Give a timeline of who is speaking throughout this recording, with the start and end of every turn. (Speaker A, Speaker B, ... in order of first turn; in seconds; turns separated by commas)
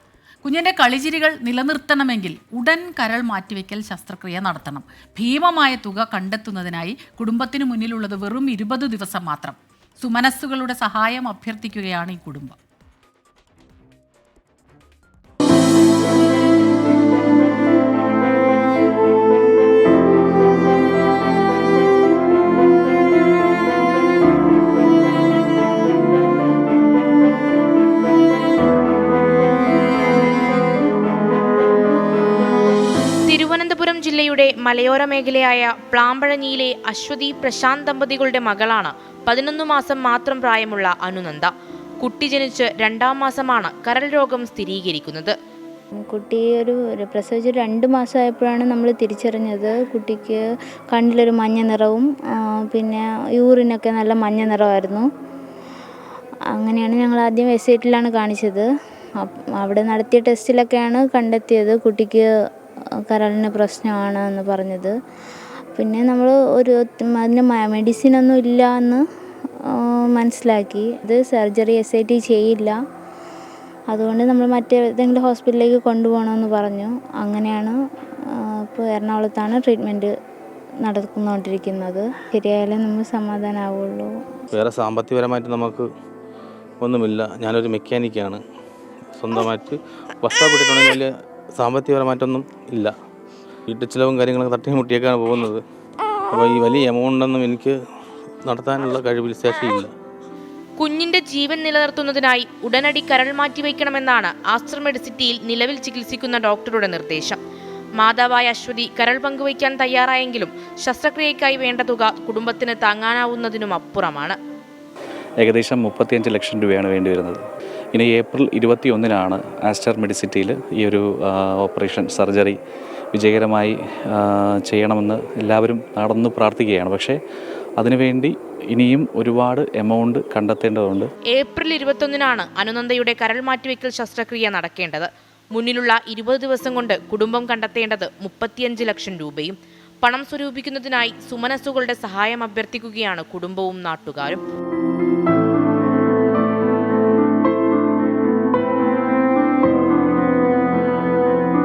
Speaker A: 0.4-12.6, Speaker B: 33.3-45.3, Speaker C: 46.0-50.4, Speaker C: 50.9-52.1, Speaker C: 52.7-55.0, Speaker C: 56.5-58.7, Speaker C: 59.2-62.3, Speaker C: 63.1-64.9, Speaker C: 65.7-69.0, Speaker C: 69.7-72.8, Speaker C: 73.9-77.7, Speaker C: 78.3-80.1, Speaker C: 80.8-84.1, Speaker D: 84.5-85.9, Speaker D: 86.8-88.4, Speaker D: 89.2-92.9, Speaker D: 93.7-95.6, Speaker D: 96.3-97.8, Speaker D: 98.4-99.9, Speaker B: 100.8-107.4, Speaker B: 108.0-114.4, Speaker E: 115.4-117.4, Speaker E: 117.9-122.6, Speaker E: 123.1-127.2, Speaker E: 127.8-131.1, Speaker B: 131.3-144.4